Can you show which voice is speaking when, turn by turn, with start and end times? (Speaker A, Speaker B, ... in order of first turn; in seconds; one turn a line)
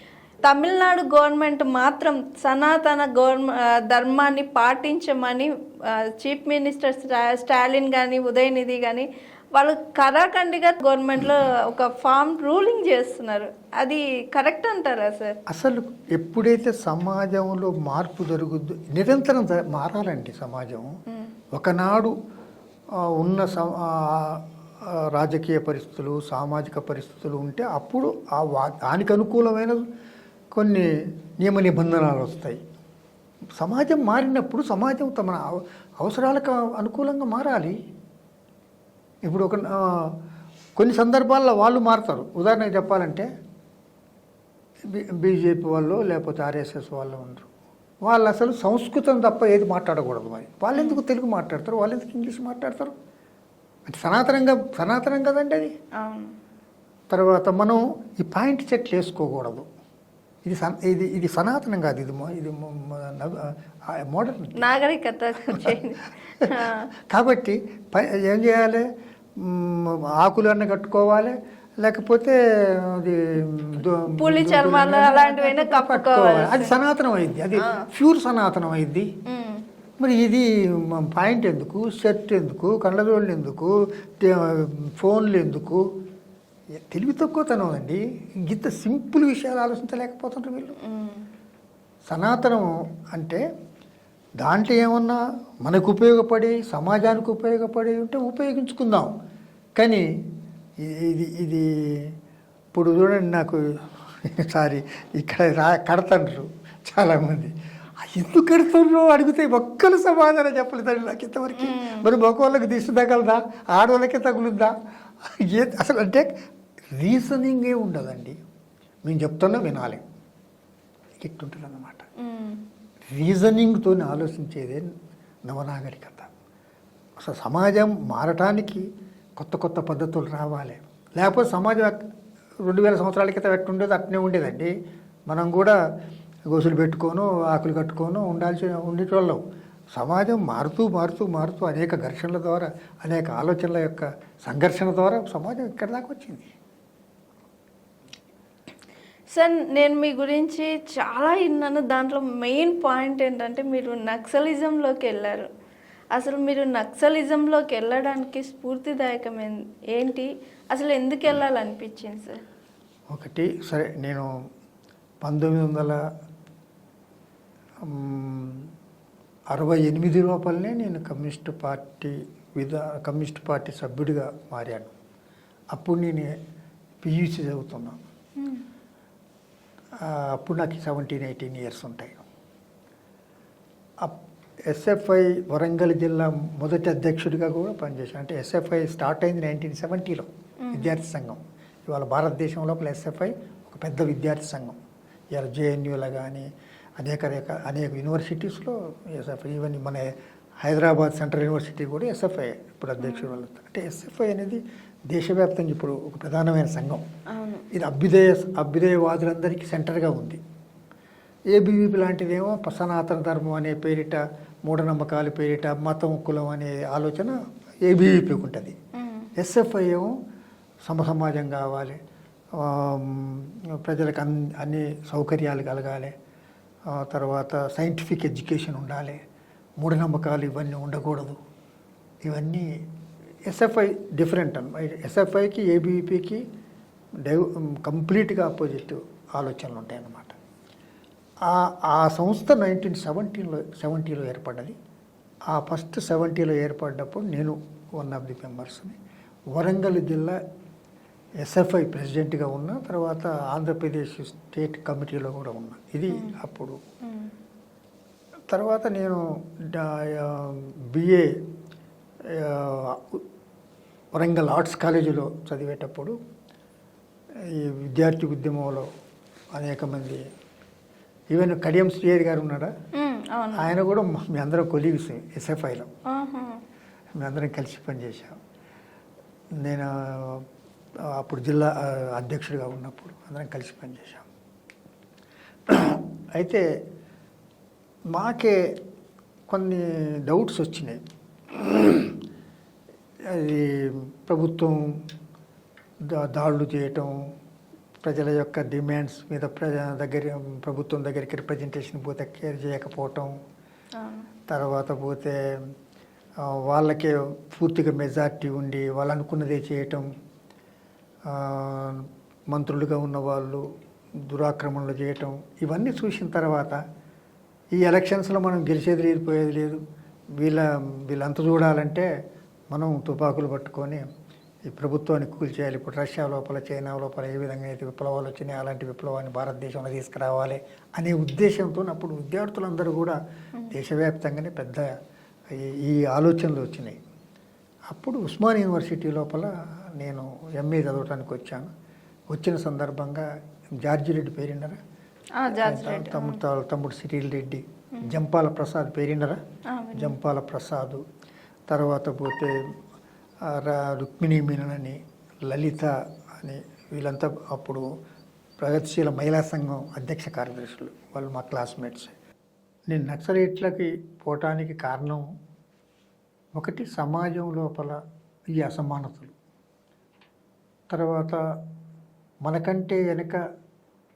Speaker A: 0.5-5.5
Speaker A: 6.1-15.4
Speaker B: 15.5-20.9
Speaker B: 21.5-22.1
Speaker B: 23.2-24.4
Speaker B: 25.1-29.8
Speaker B: 30.5-30.9
Speaker B: 31.4-32.6
Speaker B: 33.6-37.8
Speaker B: 39.2-40.2
Speaker B: 40.8-43.2
Speaker B: 44.9-47.5
Speaker B: 48.1-52.9
Speaker A: 50.7-51.0
Speaker B: 53.9-55.7
Speaker A: 56.0-56.3
Speaker B: 57.1-59.6
Speaker B: 60.4-64.7
Speaker A: 64.6-66.9
Speaker B: 67.1-68.8
Speaker B: 69.4-79.1
Speaker A: 74.2-76.7
Speaker A: 79.3-79.6
Speaker B: 80.0-85.8
Speaker B: 86.8-90.8
Speaker A: 90.8-91.2
Speaker B: 92.1-93.4
Speaker B: 94.4-99.1
Speaker B: 99.8-100.0
Speaker B: 100.8-102.0
Speaker B: 102.7-103.6
Speaker B: 104.2-114.7
Speaker A: 111.6-112.0
Speaker B: 115.4-116.3
Speaker B: 117.0-118.4
Speaker B: 119.0-120.0
Speaker B: 121.2-122.0
Speaker A: 122.2-122.6
Speaker B: 123.1-124.8
Speaker B: 125.5-126.3
Speaker B: 127.2-128.8
Speaker B: 129.4-131.9
Speaker B: 132.6-134.7
Speaker B: 135.3-135.8
Speaker B: 136.5-139.4
Speaker B: 139.9-146.5
Speaker A: 149.3-155.4
Speaker A: 156.2-162.3
Speaker B: 163.1-164.3
Speaker B: 165.2-166.0
Speaker B: 167.8-168.7
Speaker B: 169.5-174.9
Speaker B: 175.7-176.3
Speaker B: 177.0-178.0
Speaker B: 180.0-182.2
Speaker B: 184.7-194.8
Speaker A: 190.6-191.0
Speaker B: 195.3-196.4
Speaker B: 197.0-200.0
Speaker B: 200.6-204.6
Speaker A: 203.0-203.3
Speaker B: 205.1-207.0
Speaker A: 207.3-207.6
Speaker B: 207.7-210.4
Speaker B: 211.5-217.3
Speaker B: 217.8-218.8
Speaker A: 218.9-219.3
Speaker B: 219.4-220.1
Speaker B: 220.8-222.0
Speaker B: 222.6-226.1
Speaker B: 226.9-229.2
Speaker B: 229.8-231.4
Speaker B: 232.2-232.7
Speaker B: 233.5-236.4
Speaker B: 237.2-240.3
Speaker B: 241.4-244.7
Speaker B: 245.5-249.0
Speaker B: 249.6-250.3
Speaker B: 251.4-256.8
Speaker B: 258.5-261.2
Speaker B: 262.4-263.2
Speaker B: 264.1-266.1
Speaker B: 267.5-268.9
Speaker B: 269.5-270.2
Speaker B: 271.3-272.7
Speaker A: 273.0-273.7
Speaker B: 273.6-275.9
Speaker A: 276.1-276.6
Speaker B: 277.2-278.4
Speaker B: 279.6-280.4
Speaker B: 281.1-284.2
Speaker B: 285.7-286.6
Speaker B: 288.1-288.6
Speaker B: 289.5-291.0
Speaker B: 291.5-292.2
Speaker B: 293.3-294.8
Speaker B: 296.1-297.1
Speaker B: 298.0-303.3
Speaker A: 304.0-304.3
Speaker B: 304.5-305.4
Speaker B: 306.5-310.1
Speaker B: 311.3-313.6
Speaker B: 314.3-316.8
Speaker B: 317.8-319.8
Speaker B: 320.4-322.1
Speaker B: 322.7-324.0
Speaker B: 324.7-333.1
Speaker B: 333.7-334.8
Speaker B: 335.6-337.0
Speaker B: 337.9-341.7
Speaker B: 342.3-343.2
Speaker B: 343.8-344.8
Speaker A: 345.4-346.4
Speaker B: 345.5-349.4
Speaker A: 349.7-350.2
Speaker B: 349.9-351.0
Speaker B: 351.7-352.5
Speaker B: 353.5-357.8
Speaker B: 358.6-362.1
Speaker B: 362.9-365.2
Speaker B: 366.6-367.9
Speaker B: 368.6-369.3
Speaker B: 370.9-371.4
Speaker B: 372.4-373.4